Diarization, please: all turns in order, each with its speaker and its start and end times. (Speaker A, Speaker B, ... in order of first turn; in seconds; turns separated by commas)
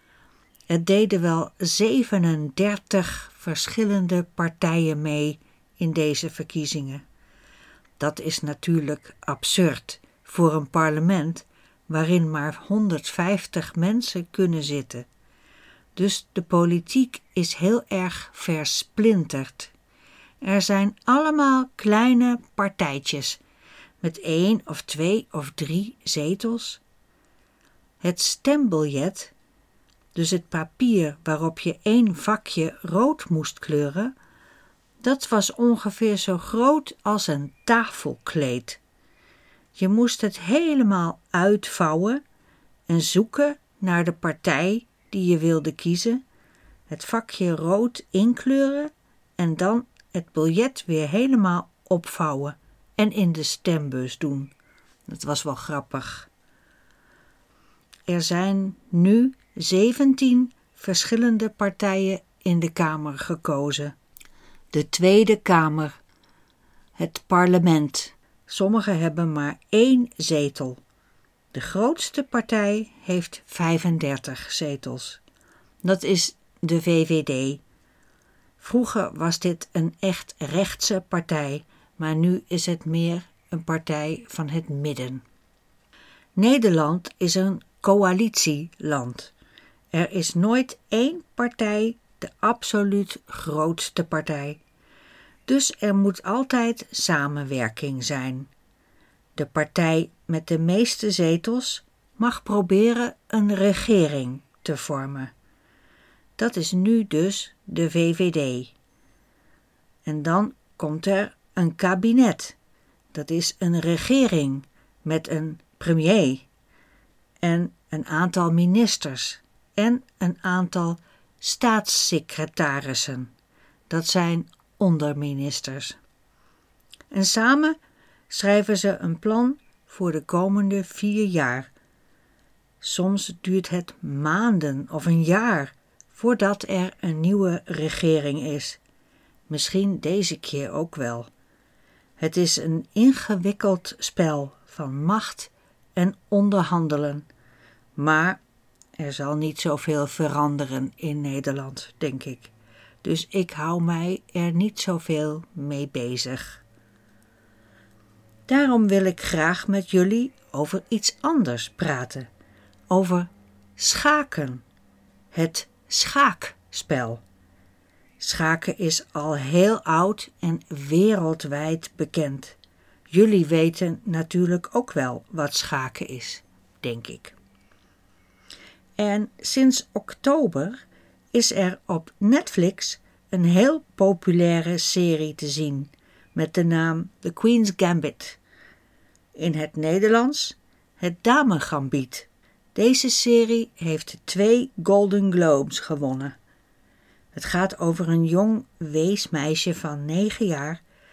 Speaker A: 0.7-7.0, Speaker A: 8.0-15.1, Speaker A: 16.0-19.7, Speaker A: 20.4-23.4, Speaker A: 24.0-26.8, Speaker A: 28.0-29.3, Speaker A: 30.1-34.1, Speaker A: 35.0-38.8, Speaker A: 39.8-42.2, Speaker A: 42.9-46.2, Speaker A: 46.9-54.5, Speaker A: 55.1-56.3, Speaker A: 58.1-64.0, Speaker A: 64.7-66.0, Speaker A: 67.0-70.8, Speaker A: 71.5-75.2, Speaker A: 75.8-77.6, Speaker A: 78.6-85.2, Speaker A: 86.4-89.3, Speaker A: 89.9-94.6, Speaker A: 95.5-98.5, Speaker A: 99.4-105.3, Speaker A: 106.4-108.7, Speaker A: 110.0-112.6, Speaker A: 113.1-116.5, Speaker A: 117.4-123.3, Speaker A: 123.9-126.0, Speaker A: 127.1-127.8, Speaker A: 128.3-131.7, Speaker A: 132.8-138.8, Speaker A: 139.5-141.3, Speaker A: 142.2-147.3, Speaker A: 148.0-148.4, Speaker A: 149.0-152.5, Speaker A: 153.0-156.6, Speaker A: 158.5-162.3, Speaker A: 162.9-164.6, Speaker A: 165.3-167.2, Speaker A: 168.2-172.6, Speaker A: 173.1-177.4, Speaker A: 179.0-180.8, Speaker A: 181.3-188.4, Speaker A: 189.3-196.4, Speaker A: 197.3-200.8